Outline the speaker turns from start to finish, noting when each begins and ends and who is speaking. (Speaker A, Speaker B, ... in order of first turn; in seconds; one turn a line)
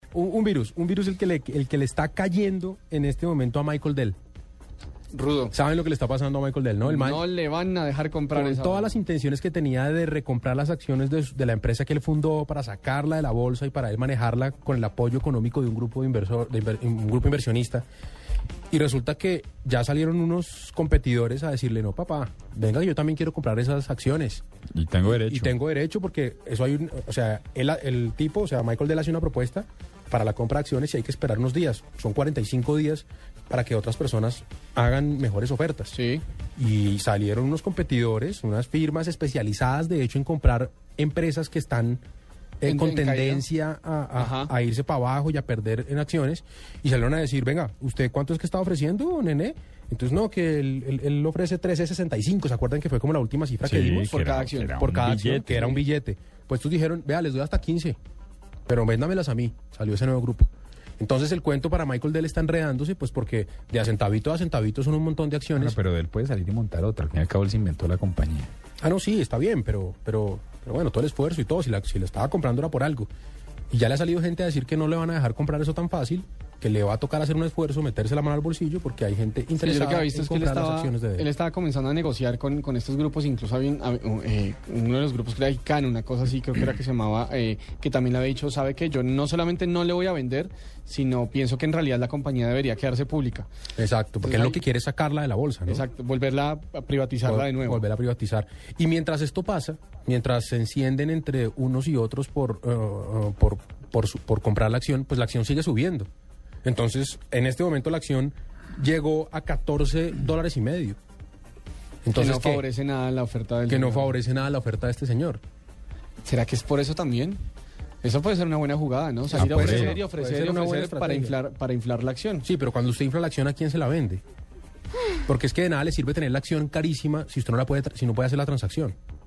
Speaker A: 0.1-4.2
Speaker B: 5.1-5.5
Speaker A: 5.5-7.2
Speaker B: 6.8-8.9
Speaker A: 8.3-17.9
Speaker A: 18.7-24.4
Speaker C: 24.7-25.6
Speaker A: 25.0-36.0
Speaker B: 35.9-36.2
Speaker A: 36.6-42.0
Speaker A: 42.6-54.1
Speaker B: 42.7-43.4
Speaker B: 44.2-44.5
Speaker C: 53.6-55.7
Speaker B: 54.0-54.7
Speaker A: 54.7-58.0
Speaker A: 58.7-65.8
Speaker C: 65.6-68.5
Speaker A: 68.8-73.1
Speaker A: 73.7-81.3
Speaker B: 79.6-93.5
Speaker A: 93.8-95.8
Speaker B: 94.2-94.6
Speaker B: 95.7-97.8
Speaker A: 97.2-106.1
Speaker A: 106.6-111.0
Speaker A: 112.0-112.6
Speaker B: 112.2-114.1
Speaker A: 113.7-115.4
Speaker B: 116.2-117.5
Speaker B: 118.0-122.5
Speaker C: 119.3-120.0
Speaker A: 119.3-121.3
Speaker A: 122.4-124.2
Speaker A: 125.2-128.9